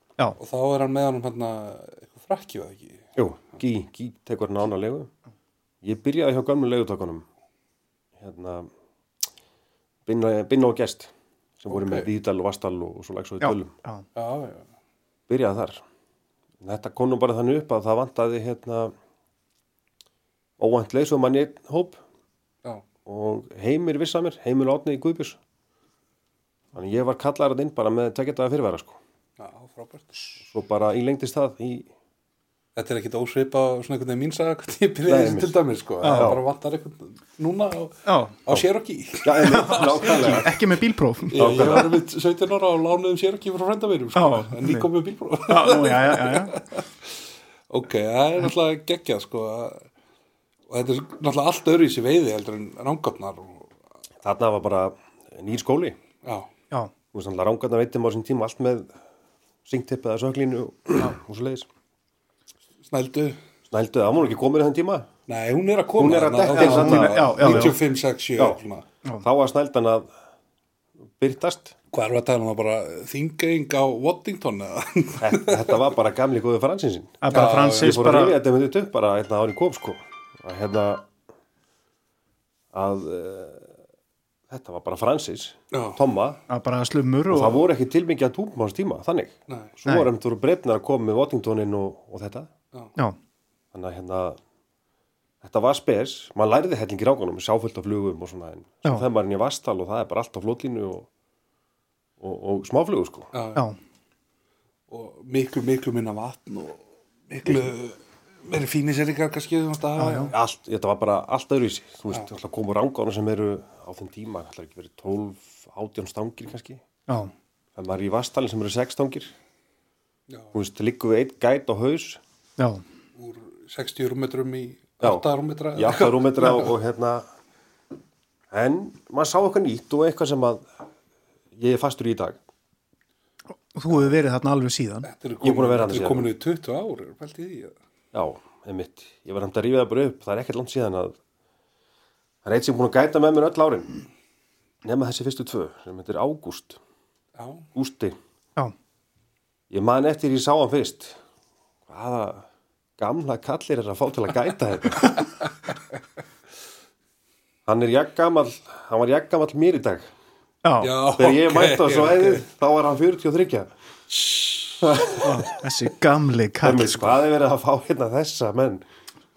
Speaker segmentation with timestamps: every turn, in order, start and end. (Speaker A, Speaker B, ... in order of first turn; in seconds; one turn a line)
Speaker A: 0.4-3.1
Speaker B: 3.1-5.1
Speaker B: 5.8-7.2
Speaker B: 8.2-8.7
Speaker B: 10.1-13.7
Speaker A: 11.7-12.1
Speaker C: 13.4-14.1
Speaker A: 14.1-14.7
Speaker B: 15.3-15.8
Speaker B: 16.6-18.9
Speaker B: 20.6-22.0
Speaker B: 23.1-25.4
Speaker B: 26.8-29.0
Speaker A: 29.4-30.2
Speaker B: 30.4-31.9
Speaker A: 32.8-40.5
Speaker B: 35.1-35.5
Speaker C: 36.0-36.3
Speaker B: 36.1-36.4
Speaker C: 38.1-38.4
Speaker B: 39.2-40.6
Speaker C: 39.4-41.6
Speaker A: 41.3-47.1
Speaker B: 41.4-42.0
Speaker C: 44.1-44.9
Speaker C: 45.5-46.6
Speaker A: 47.7-49.9
Speaker A: 50.7-53.7
Speaker B: 54.2-56.0
Speaker A: 56.2-56.5
Speaker B: 57.1-58.9
Speaker B: 59.6-61.7
Speaker A: 62.9-63.4
Speaker B: 63.7-65.1
Speaker A: 65.3-68.9
Speaker B: 66.0-67.8
Speaker C: 66.5-67.8
Speaker B: 69.2-70.1
Speaker B: 71.2-71.8
Speaker A: 71.9-75.8
Speaker B: 75.2-81.1
Speaker C: 77.2-78.4
Speaker A: 77.3-78.1
Speaker B: 82.7-83.7
Speaker B: 84.5-86.4
Speaker A: 85.7-86.0
Speaker C: 86.5-87.6
Speaker B: 87.3-92.5
Speaker C: 89.8-90.1
Speaker B: 93.7-94.4
Speaker B: 95.4-101.1
Speaker B: 102.2-103.3
Speaker A: 103.3-103.6
Speaker A: 104.9-110.3
Speaker C: 110.0-110.3
Speaker B: 110.3-116.8
Speaker C: 117.1-117.3
Speaker B: 117.8-119.3
Speaker A: 120.3-120.5
Speaker B: 120.5-122.2
Speaker A: 123.2-126.7
Speaker B: 125.0-127.3
Speaker B: 128.5-130.7
Speaker B: 131.6-132.4
Speaker C: 133.7-135.1
Speaker A: 135.1-137.8
Speaker B: 135.4-136.3
Speaker B: 138.1-141.2
Speaker B: 142.4-144.0
Speaker B: 144.8-146.8
Speaker A: 147.3-147.7
Speaker B: 147.8-148.2
Speaker B: 149.7-151.2
Speaker B: 151.9-152.5
Speaker B: 153.0-155.1
Speaker B: 157.7-160.1
Speaker C: 160.6-160.9
Speaker A: 160.8-162.5
Speaker B: 161.2-163.7
Speaker A: 164.1-164.8
Speaker B: 164.8-165.5
Speaker C: 165.2-167.2
Speaker B: 166.6-168.8